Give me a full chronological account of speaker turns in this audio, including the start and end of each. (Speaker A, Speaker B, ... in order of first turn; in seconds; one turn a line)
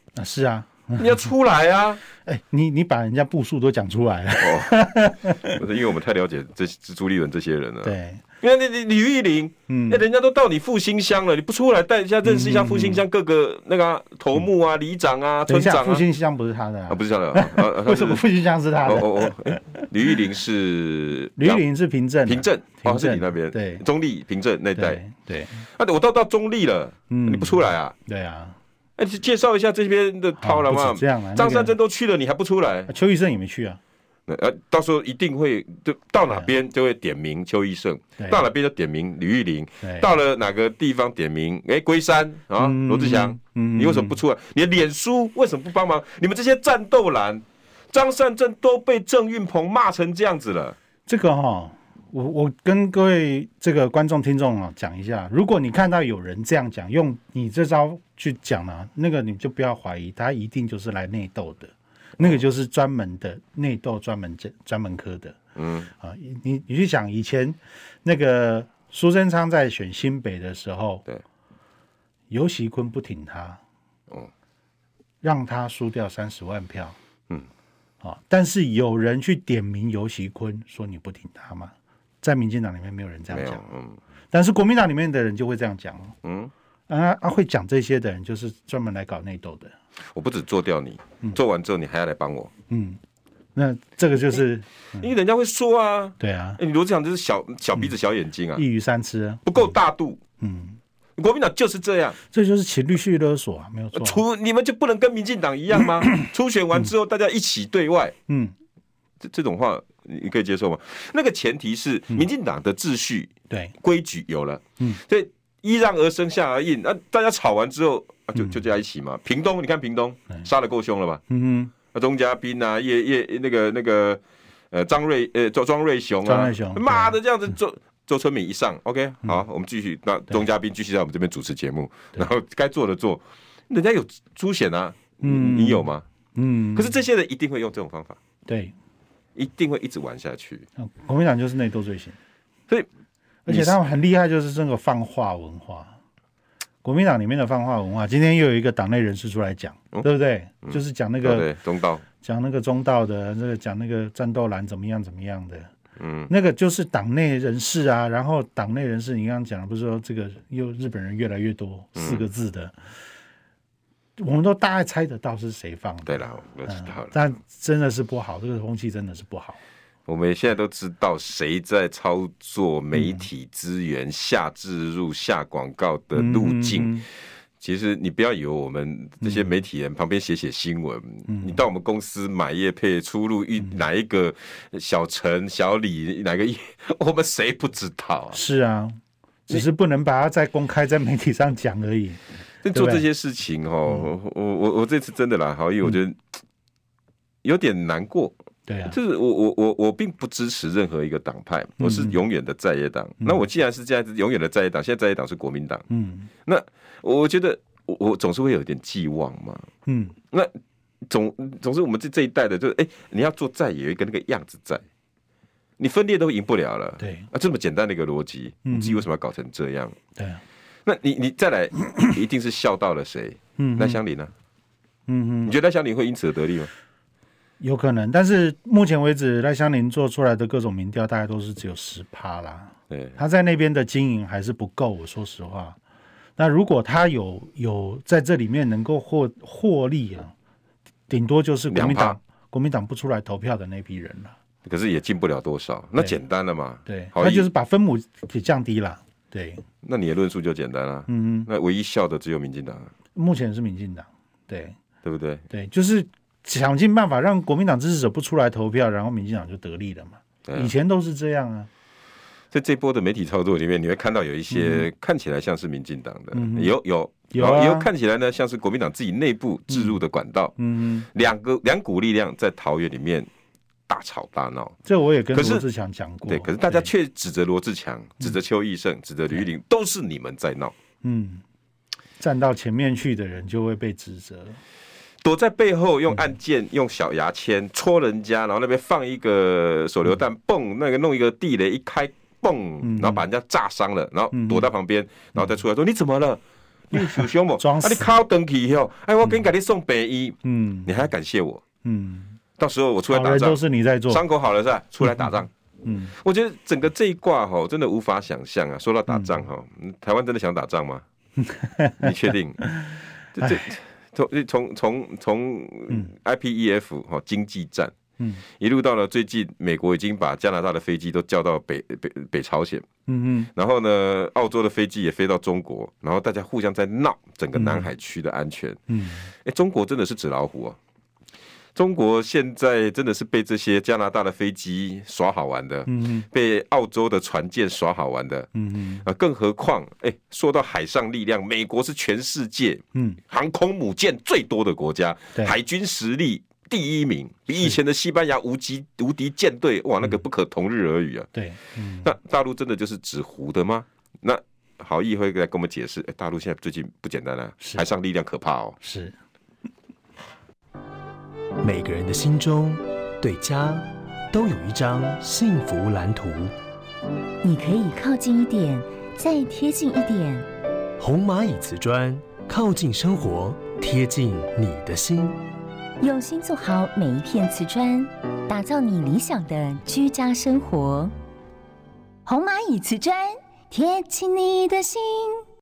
Speaker A: 0.1-1.3
Speaker B: 1.0-2.0
Speaker A: 2.2-5.6
Speaker B: 4.4-4.8
Speaker B: 5.4-16.0
Speaker A: 7.8-8.2
Speaker A: 9.7-10.0
Speaker A: 12.2-13.0
Speaker A: 15.5-19.8
Speaker B: 16.9-18.2
Speaker B: 18.8-21.6
Speaker A: 21.4-23.8
Speaker B: 22.2-25.0
Speaker A: 24.8-25.6
Speaker B: 25.7-27.9
Speaker A: 27.1-28.6
Speaker B: 29.0-32.9
Speaker A: 30.4-31.7
Speaker A: 32.9-33.8
Speaker B: 34.3-50.8
Speaker A: 38.2-38.4
Speaker A: 39.8-40.1
Speaker A: 42.6-44.2
Speaker A: 51.1-65.4
Speaker B: 65.5-65.9
Speaker A: 66.0-71.0
Speaker A: 72.3-73.6
Speaker A: 75.2-77.0
Speaker A: 78.0-83.6
Speaker B: 83.3-84.0
Speaker A: 84.3-86.1
Speaker B: 86.2-86.5
Speaker A: 86.9-89.7
Speaker B: 90.1-92.5
Speaker A: 92.7-93.0
Speaker A: 93.5-95.1
Speaker B: 95.0-98.6
Speaker A: 96.2-96.6
Speaker A: 98.5-99.7
Speaker B: 99.5-100.2
Speaker A: 100.4-100.8
Speaker B: 101.2-102.2
Speaker A: 102.3-104.2
Speaker B: 103.9-108.2
Speaker A: 108.3-108.5
Speaker B: 109.2-121.2
Speaker A: 121.3-121.7
Speaker B: 121.9-136.1
Speaker A: 126.2-127.2
Speaker A: 135.2-136.9
Speaker B: 136.7-138.2
Speaker A: 138.4-138.7
Speaker B: 139.3-140.7
Speaker A: 140.8-142.2
Speaker A: 143.4-145.9
Speaker B: 143.5-143.8
Speaker A: 146.8-151.5
Speaker B: 150.6-152.0
Speaker A: 152.2-155.7
Speaker B: 156.0-156.3
Speaker A: 156.3-162.7
Speaker B: 161.9-162.2
Speaker A: 164.2-169.6
Speaker B: 166.1-167.2
Speaker B: 170.1-177.1
Speaker A: 172.9-173.2
Speaker A: 176.1-177.0
Speaker B: 177.6-188.4
Speaker A: 179.2-179.5
Speaker A: 181.3-181.6
Speaker A: 188.3-192.2
Speaker B: 192.6-196.2
Speaker A: 192.7-193.0
Speaker B: 197.4-198.3
Speaker A: 198.7-198.9
Speaker B: 198.8-205.8
Speaker A: 201.8-202.2
Speaker A: 205.9-206.3
Speaker B: 206.4-209.7
Speaker A: 209.8-210.1
Speaker B: 211.1-214.8
Speaker B: 215.8-219.9
Speaker A: 217.0-217.3
Speaker A: 218.7-219.0
Speaker B: 220.8-224.3
Speaker A: 223.6-224.0
Speaker A: 225.1-225.5
Speaker B: 225.4-226.7
Speaker A: 227.6-235.8
Speaker B: 232.9-233.2
Speaker A: 236.4-240.3
Speaker A: 241.1-244.3
Speaker B: 241.7-242.2
Speaker B: 244.6-247.5
Speaker A: 246.8-249.6
Speaker B: 249.8-252.9
Speaker A: 251.1-251.5
Speaker A: 253.1-254.8
Speaker B: 255.0-255.4
Speaker A: 255.5-261.7
Speaker B: 260.4-260.7
Speaker B: 262.5-270.5
Speaker A: 264.5-264.9
Speaker A: 266.3-266.7
Speaker A: 267.3-267.9
Speaker A: 269.7-269.9
Speaker A: 270.6-271.1
Speaker B: 271.1-273.3
Speaker B: 273.9-274.8
Speaker A: 274.9-276.9
Speaker B: 275.3-275.6
Speaker B: 276.3-280.7
Speaker A: 281.0-281.4
Speaker A: 282.2-284.6
Speaker B: 285.2-301.6
Speaker A: 292.8-293.2
Speaker A: 294.3-294.7
Speaker A: 296.9-298.1
Speaker A: 300.4-300.9
Speaker A: 301.8-302.4
Speaker B: 302.6-305.5
Speaker A: 303.1-304.2
Speaker A: 305.0-305.3
Speaker A: 305.8-306.1
Speaker B: 306.1-311.0
Speaker A: 309.1-309.4
Speaker A: 311.4-312.1
Speaker B: 312.0-312.7
Speaker B: 313.3-317.9
Speaker B: 318.6-322.9
Speaker A: 323.1-323.5
Speaker B: 323.5-328.8
Speaker A: 327.5-327.9
Speaker A: 328.9-329.3
Speaker B: 329.3-330.8
Speaker B: 331.7-338.5
Speaker A: 335.9-336.2
Speaker A: 338.5-339.0
Speaker B: 339.0-351.3
Speaker A: 351.3-352.1
Speaker B: 352.0-358.8
Speaker A: 358.8-359.1
Speaker C: 361.6-366.5
Speaker D: 367.4-370.4
Speaker C: 371.0-375.4
Speaker D: 376.0-381.1
Speaker D: 382.3-383.1
Speaker D: 383.7-385.2